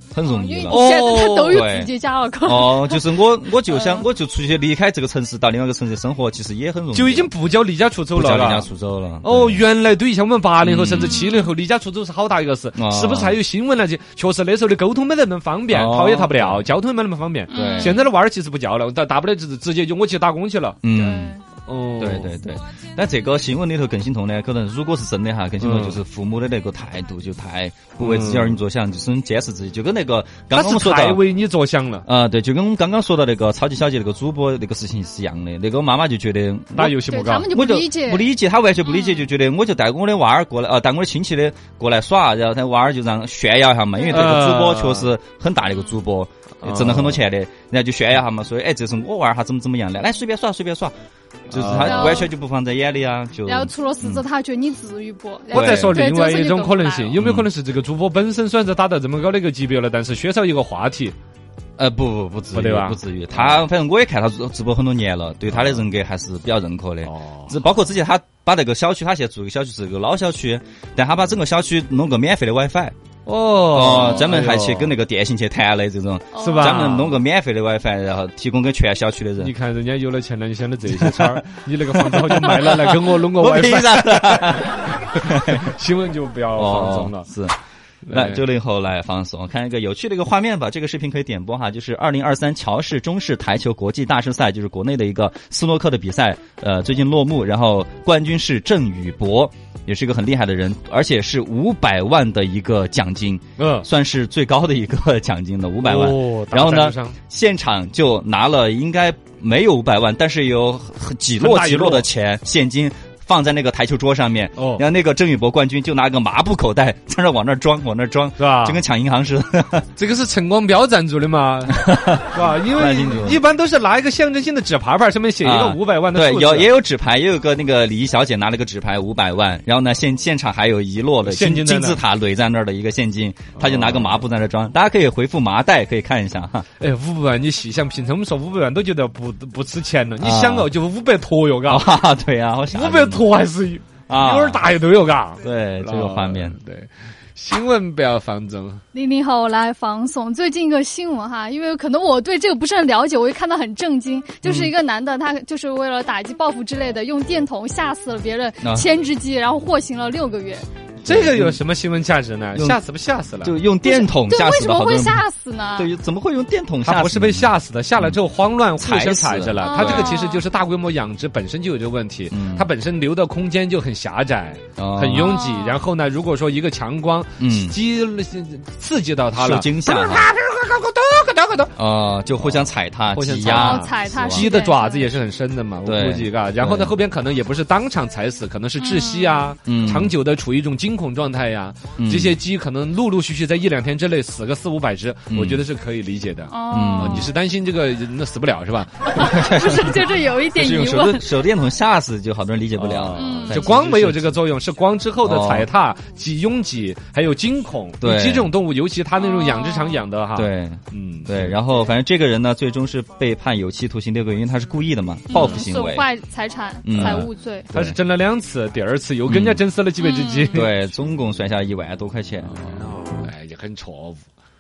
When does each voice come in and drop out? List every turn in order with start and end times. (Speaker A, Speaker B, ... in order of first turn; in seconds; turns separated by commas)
Speaker A: 0.1-1.9, Speaker B: 0.2-3.1, Speaker C: 0.7-1.6, Speaker A: 2.4-7.3, Speaker B: 3.7-4.0, Speaker C: 6.9-8.7, Speaker A: 8.2-9.6, Speaker C: 9.2-20.8, Speaker A: 10.6-11.4, Speaker B: 11.2-11.5, Speaker A: 12.8-13.4, Speaker A: 15.7-16.7, Speaker B: 17.5-18.1, Speaker A: 17.5-18.0, Speaker A: 20.8-21.3, Speaker B: 20.9-21.4, Speaker C: 21.7-22.3, Speaker A: 22.0-31.2, Speaker C: 25.6-26.0, Speaker C: 28.0-28.6, Speaker C: 30.5-32.0, Speaker A: 32.0-37.0, Speaker C: 36.8-37.5, Speaker B: 37.0-38.3, Speaker A: 37.5-50.9, Speaker B: 38.9-39.2, Speaker C: 44.1-45.1, Speaker C: 46.6-47.2, Speaker C: 51.5-52.3, Speaker A: 51.5-54.2, Speaker B: 51.8-52.3, Speaker B: 53.5-57.1, Speaker A: 55.5-56.0, Speaker C: 55.5-61.1, Speaker A: 57.1-57.5, Speaker A: 61.8-72.9, Speaker C: 62.5-63.7, Speaker C: 65.5-65.8, Speaker C: 67.0-67.5, Speaker C: 73.3-75.0, Speaker A: 73.7-79.5, Speaker B: 76.3-76.9, Speaker C: 76.4-77.2, Speaker C: 79.4-87.3, Speaker A: 81.0-81.4, Speaker A: 81.9-85.7, Speaker A: 86.6-87.6, Speaker C: 88.1-88.4, Speaker A: 88.1-119.9, Speaker C: 103.6-103.9, Speaker C: 105.8-107.2, Speaker C: 111.4-112.1, Speaker C: 114.6-114.8, Speaker C: 118.4-118.8, Speaker C: 120.0-121.8, Speaker A: 121.8-123.4, Speaker C: 122.3-126.7, Speaker A: 125.4-136.7, Speaker C: 131.2-132.0, Speaker C: 133.6-134.2, Speaker C: 136.8-141.9, Speaker A: 140.2-140.7, Speaker A: 141.7-143.3, Speaker C: 142.7-148.8, Speaker A: 144.1-144.7, Speaker A: 145.4-146.6, Speaker B: 148.9-160.7, Speaker A: 154.4-154.7, Speaker A: 158.6-158.9, Speaker A: 161.1-161.6, Speaker C: 161.1-163.6, Speaker A: 162.6-162.8, Speaker A: 163.4-165.2, Speaker B: 163.8-165.9, Speaker A: 165.8-168.2, Speaker C: 166.8-181.7, Speaker A: 168.8-170.2, Speaker B: 169.6-170.4, Speaker A: 172.3-172.7, Speaker A: 174.8-175.4, Speaker B: 175.2-175.8, Speaker A: 177.4-177.8, Speaker A: 179.4-180.3, Speaker A: 181.8-184.5, Speaker C: 182.4-199.0, Speaker B: 183.4-185.1, Speaker A: 185.8-186.9, Speaker B: 188.8-189.4, Speaker A: 189.7-190.1, Speaker A: 192.0-192.4, Speaker A: 195.3-195.7, Speaker B: 196.5-197.3, Speaker A: 196.7-197.3, Speaker B: 199.1-201.2, Speaker A: 199.2-204.4, Speaker C: 202.8-211.6, Speaker B: 203.2-203.7, Speaker A: 205.2-205.7, Speaker A: 208.0-208.5, Speaker B: 209.2-210.1, Speaker A: 210.3-216.1, Speaker B: 215.3-217.7, Speaker C: 215.3-215.6, Speaker A: 216.8-218.0, Speaker C: 216.9-220.8, Speaker A: 219.3-219.6, Speaker B: 220.0-220.7, Speaker A: 220.5-222.6, Speaker C: 223.2-224.2